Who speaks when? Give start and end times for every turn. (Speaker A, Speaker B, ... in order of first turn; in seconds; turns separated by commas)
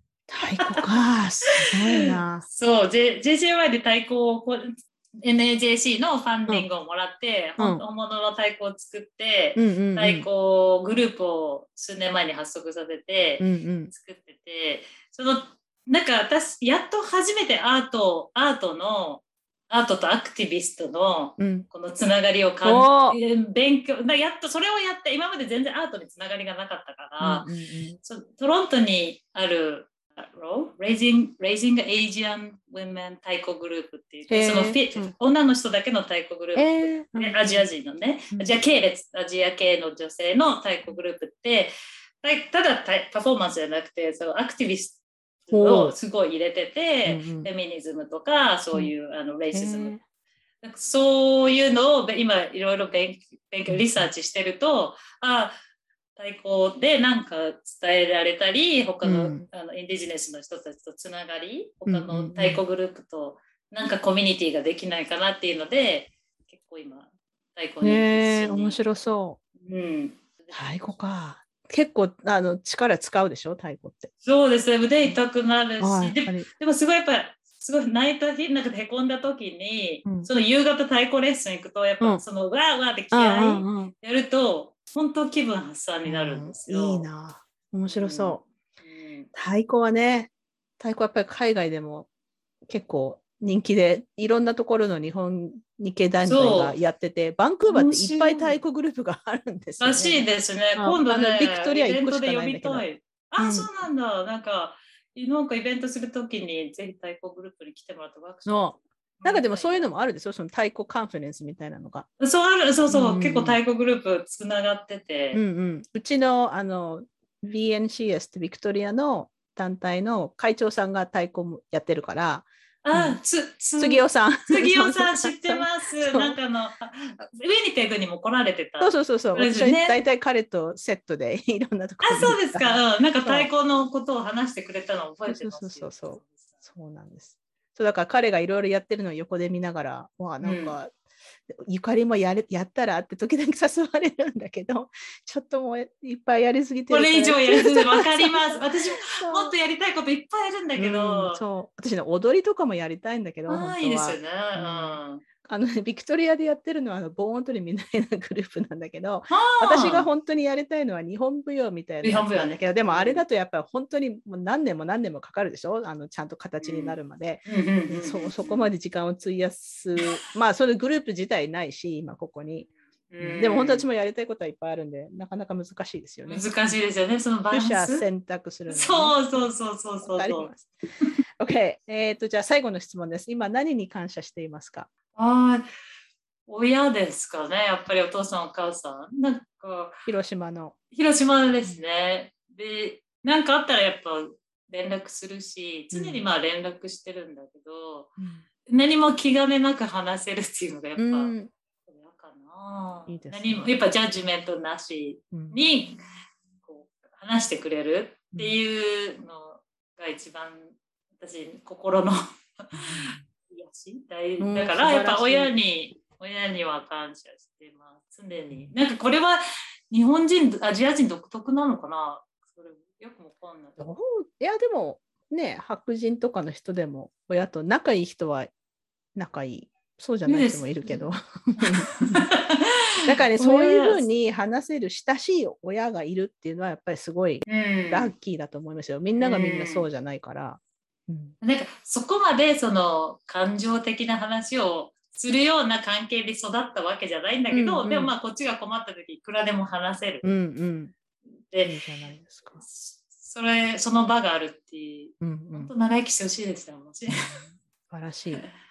Speaker A: 0.3-2.4, Speaker B: 0.6-0.8, Speaker B: 1.6-27.5, Speaker A: 7.6-7.8, Speaker A: 9.6-10.3, Speaker A: 13.4-13.9, Speaker A: 21.4-21.7, Speaker A: 22.6-23.2, Speaker A: 27.2-28.0, Speaker B: 28.0-50.0, Speaker A: 34.3-35.1, Speaker A: 36.5-37.6, Speaker A: 45.5-45.9, Speaker A: 47.0-47.5, Speaker A: 49.5-50.0, Speaker B: 50.6-55.6, Speaker A: 53.7-54.1, Speaker B: 56.1-68.8, Speaker A: 59.0-59.5, Speaker A: 61.9-62.6, Speaker A: 67.8-69.4, Speaker B: 69.6-70.6, Speaker A: 70.5-74.1, Speaker B: 74.2-87.1, Speaker A: 75.8-76.5, Speaker A: 83.1-83.9, Speaker A: 86.0-88.4, Speaker B: 87.9-89.3, Speaker A: 89.3-92.1, Speaker A: 92.7-100.2, Speaker B: 96.2-96.8, Speaker B: 97.7-98.6, Speaker B: 99.8-109.9, Speaker A: 100.8-102.8, Speaker A: 103.4-103.7, Speaker A: 108.5-112.1, Speaker B: 112.2-115.4, Speaker A: 112.9-113.6, Speaker A: 115.3-123.2, Speaker B: 122.8-130.0, Speaker A: 123.8-126.4, Speaker A: 128.8-133.5, Speaker B: 132.0-136.5, Speaker A: 135.2-140.9, Speaker B: 140.4-140.8, Speaker A: 141.5-148.4, Speaker B: 146.9-151.4, Speaker A: 149.1-149.5, Speaker A: 150.8-172.7, Speaker B: 153.5-155.2, Speaker B: 159.3-160.1, Speaker B: 162.0-163.2, Speaker B: 166.6-168.7, Speaker B: 173.1-173.8, Speaker A: 173.2-176.5, Speaker B: 176.2-178.1, Speaker A: 177.5-179.2, Speaker B: 178.7-180.5, Speaker A: 180.0-180.7, Speaker A: 181.4-184.9, Speaker B: 185.2-185.7, Speaker B: 186.5-189.9, Speaker A: 190.1-190.8, Speaker B: 190.9-201.3, Speaker A: 195.9-196.3, Speaker A: 198.2-198.4, Speaker A: 201.0-201.5, Speaker B: 201.9-206.0, Speaker A: 203.1-203.7, Speaker A: 205.3-205.6, Speaker B: 206.6-223.8, Speaker A: 212.7-213.2, Speaker A: 214.4-215.5, Speaker A: 223.8-228.5, Speaker A: 229.2-232.2, Speaker B: 230.2-234.0, Speaker A: 233.1-241.3, Speaker B: 237.5-238.1, Speaker B: 239.2-239.9, Speaker B: 241.4-250.3, Speaker A: 247.5-248.1, Speaker A: 250.2-250.9, Speaker B: 251.5-251.8, Speaker A: 251.6-252.6, Speaker B: 252.6-257.4, Speaker A: 255.2-255.7, Speaker A: 257.1-258.4